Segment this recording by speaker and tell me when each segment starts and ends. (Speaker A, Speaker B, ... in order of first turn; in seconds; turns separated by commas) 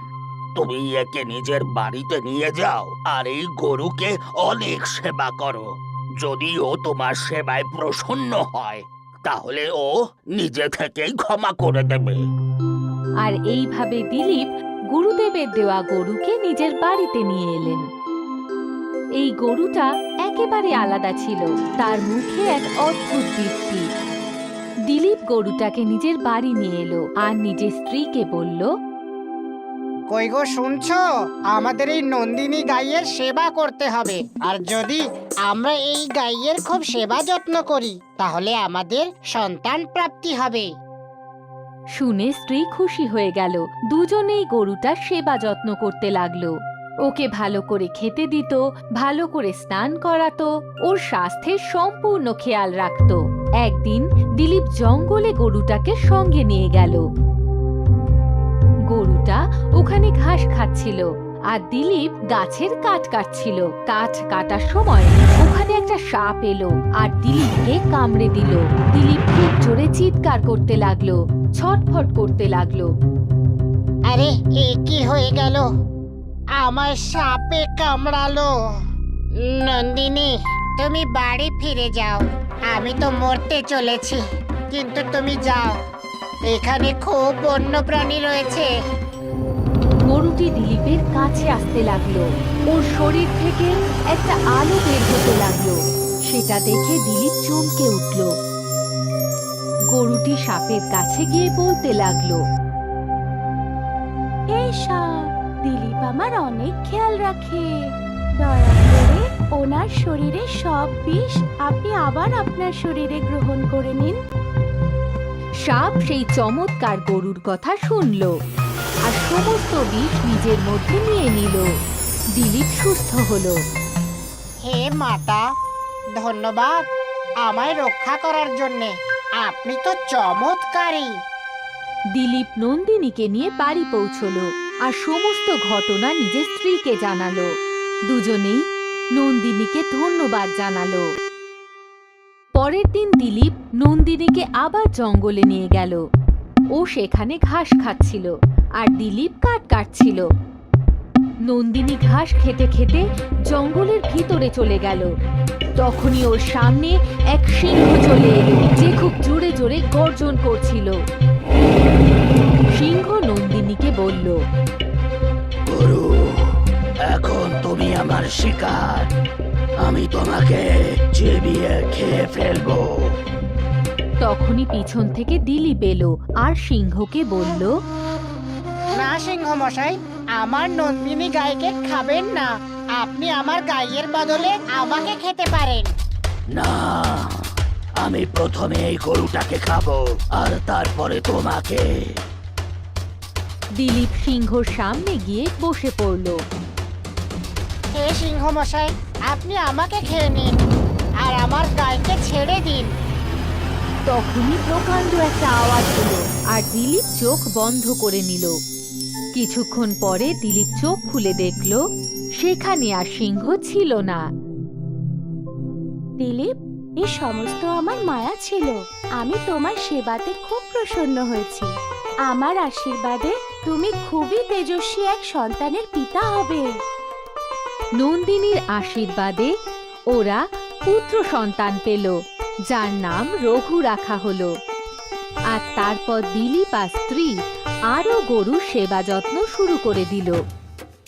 Speaker A: 0.6-5.7, Speaker A: 6.2-12.2, Speaker B: 13.2-17.9, Speaker B: 19.2-23.9, Speaker B: 24.9-28.7, Speaker C: 30.1-31.0, Speaker C: 31.5-40.7, Speaker B: 42.0-57.1, Speaker B: 58.9-72.9, Speaker C: 74.1-75.7, Speaker C: 76.6-78.5, Speaker C: 79.4-85.7, Speaker C: 86.5-88.7, Speaker B: 90.1-95.8, Speaker B: 96.3-98.3, Speaker B: 99.9-102.4, Speaker D: 104.5-107.7, Speaker D: 108.4-114.2, Speaker B: 115.6-118.3, Speaker B: 119.1-121.7, Speaker B: 122.3-123.6, Speaker C: 124.7-125.4, Speaker C: 126.2-126.8, Speaker C: 127.5-128.9, Speaker C: 129.4-131.1, Speaker B: 132.2-137.5, Speaker B: 138.1-141.0, Speaker B: 142.6-146.0, Speaker B: 146.8-150.3, Speaker B: 151.5-155.1, Speaker B: 155.8-161.0, Speaker B: 162.7-164.4, Speaker A: 165.7-169.1, Speaker A: 169.8-173.1, Speaker B: 174.2-177.7, Speaker C: 179.0-185.9, Speaker A: 186.6-187.4, Speaker A: 188.0-191.8, Speaker B: 193.8-196.4, Speaker C: 198.0-200.5, Speaker C: 201.2-202.9, Speaker B: 204.1-208.5, Speaker B: 209.3-211.8, Speaker B: 212.4-214.2, Speaker D: 216.2-221.7, Speaker D: 222.3-226.7, Speaker B: 228.0-229.5, Speaker B: 230.1-232.2, Speaker B: 232.7-234.5, Speaker B: 235.5-237.4, Speaker B: 237.9-240.4